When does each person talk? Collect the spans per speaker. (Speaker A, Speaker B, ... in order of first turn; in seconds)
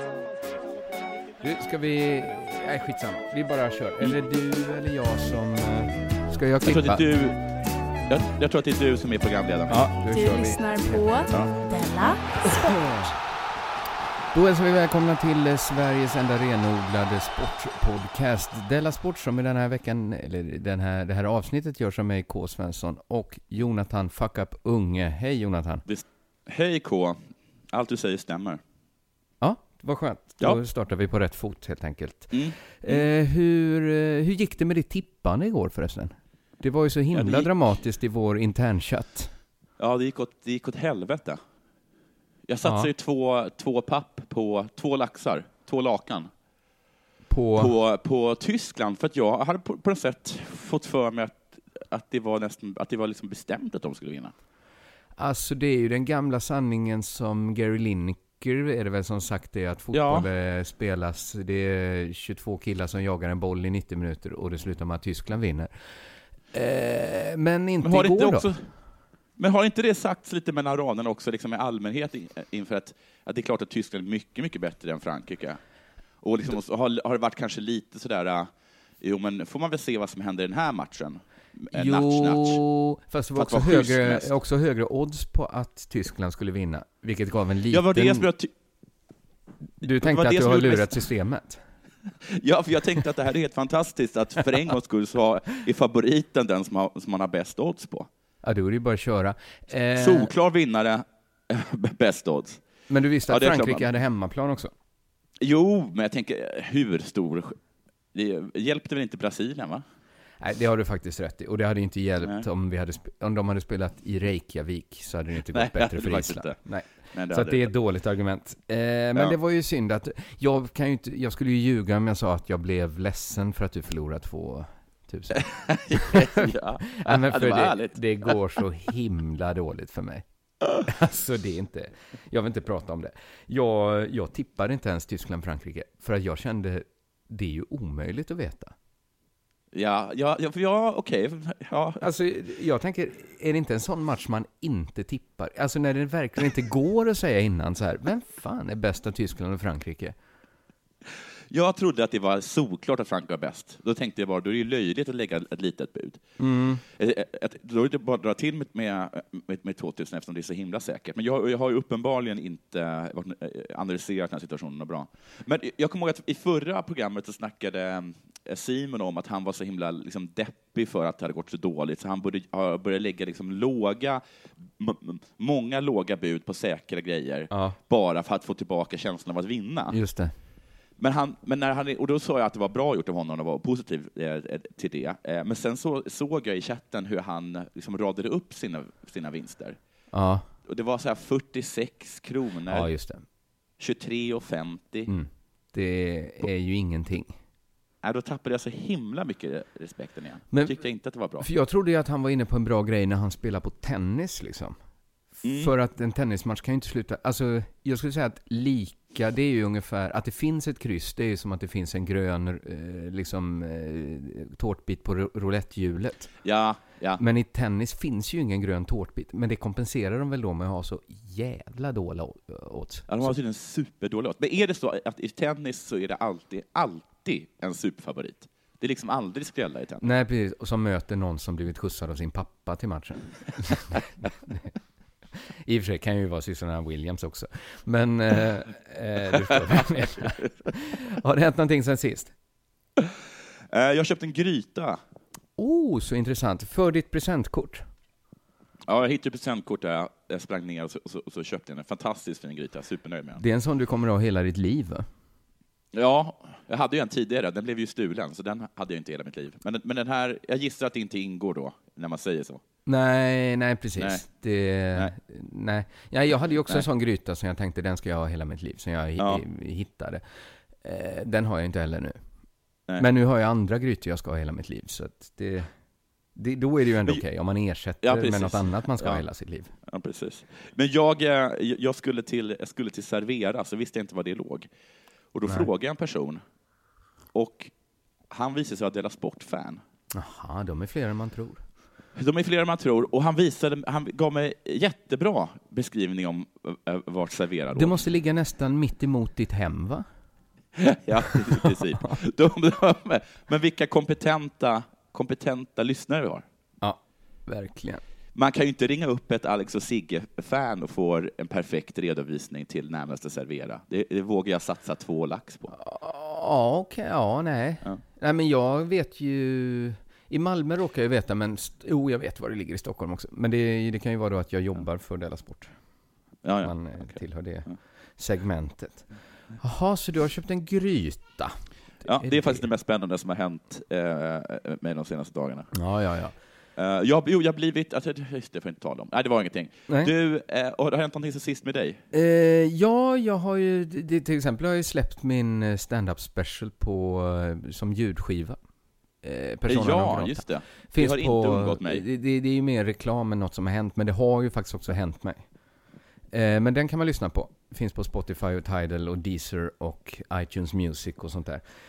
Speaker A: 1.4-7.1, 9.7-11.5, 12.4-13.2, 14.3-25.8, 29.4-39.3, 42.6-42.9, 47.3-47.7, 55.2-65.8, 66.5-68.5, 81.7-88.3, 89.8-91.6, 98.4-100.3, 102.9-104.7, 110.4-125.4, 126.0-130.2, 130.8-138.7, 142.0-150.2, 156.4-156.8, 177.5-177.8, 179.9-180.3, 190.1-190.4, 192.7-193.2, 195.1-197.4, 201.4-204.8, 205.4-216.3, 217.2-223.3, 230.0-234.7, 235.6-242.3, 245.6-247.9, 253.4-255.1, 262.9-270.2, 270.8-272.2, 273.0-275.7, 276.4-279.7, 290.1-291.6, 297.8-300.1, 301.4-301.7, 306.8-308.0, 315.7-325.7, 326.6-331.6, 332.1-332.7, 335.7-336.4, 342.1-348.6, 349.2-355.5, 356.3-361.6
Speaker B: 6.6-7.4, 8.1-9.8, 25.9-28.6, 32.3-33.0, 37.1-37.5, 39.8-41.4, 42.5-46.3, 47.6-54.3, 59.9-60.3, 67.8-68.7, 69.4-75.6, 76.2-82.6, 83.3-84.3, 87.7-88.5, 89.8-91.0, 92.3-98.1, 100.0-102.6, 103.3-103.9, 105.4-107.6, 108.1-109.8, 115.5-116.6, 117.1-117.7, 125.3-128.4, 139.7-142.1, 151.5-156.2, 156.8-174.2, 174.8-180.0, 181.0-189.8, 190.7-192.9, 193.8-195.1, 198.0-201.5, 205.4-205.7, 216.4-217.2, 223.1-230.1, 243.7-245.0, 248.9-253.4, 255.9-262.6, 264.0-264.2, 269.2-269.4, 278.0-279.2, 279.9-284.7, 285.3-286.4, 287.3-287.7, 288.3-289.8, 292.2-298.0, 300.8-306.4, 308.4-315.7, 326.4-327.8, 332.0-335.7, 336.8-342.0, 349.7-352.0
Speaker C: 10.1-12.8